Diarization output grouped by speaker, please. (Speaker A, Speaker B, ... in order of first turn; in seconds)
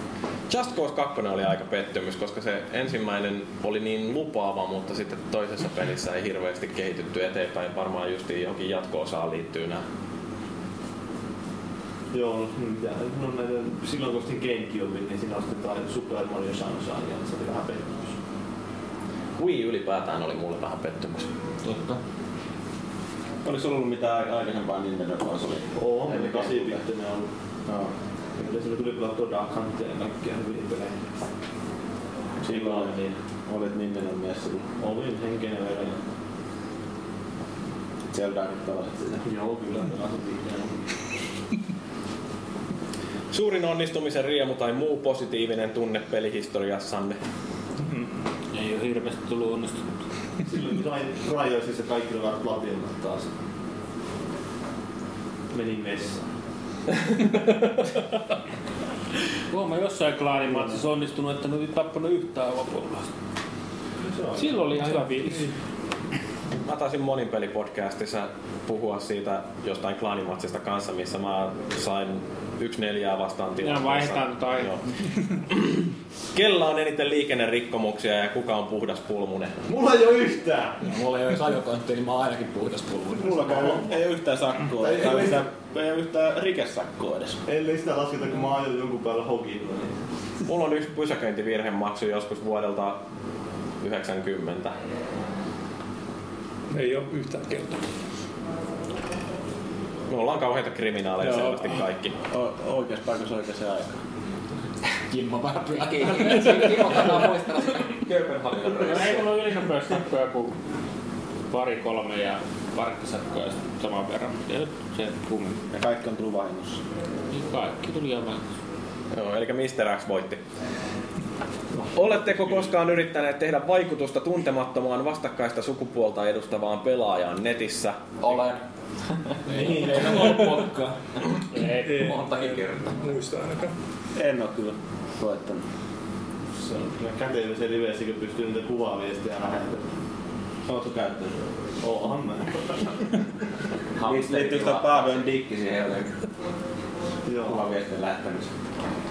Speaker A: 0.5-9.8, 19.4-21.3, 43.3-47.2, 66.7-74.8, 75.5-79.6, 90.5-93.0, 93.8-94.8, 100.1-102.1, 119.1-120.4, 122.0-128.1
Speaker B: 12.1-18.1, 25.8-27.3, 28.4-31.0, 32.5-33.2, 34.8-36.0, 39.2-40.9, 50.5-53.3, 55.5-56.3, 64.0-64.7, 79.7-80.8, 83.5-83.8, 84.8-85.4, 87.5-90.0, 121.8-122.6, 136.6-139.8, 141.8-142.7, 147.3-147.7
Speaker C: 23.4-26.8, 27.7-27.9, 32.4-33.0, 33.5-34.7, 38.1-39.2, 83.2-87.4, 102.3-104.0, 115.7-116.8, 134.2-135.6, 140.7-141.4, 144.0-146.1, 147.5-148.5
Speaker D: 48.5-49.9, 59.5-63.1, 64.4-65.5, 73.6-74.7, 108.8-110.5, 111.5-115.6, 117.3-118.4
Speaker E: 80.8-83.8, 105.1-107.0, 129.5-130.8
Speaker F: 96.7-97.8, 131.7-133.7
Speaker G: 105.9-109.2, 128.2-128.6, 131.8-132.9, 144.0-145.3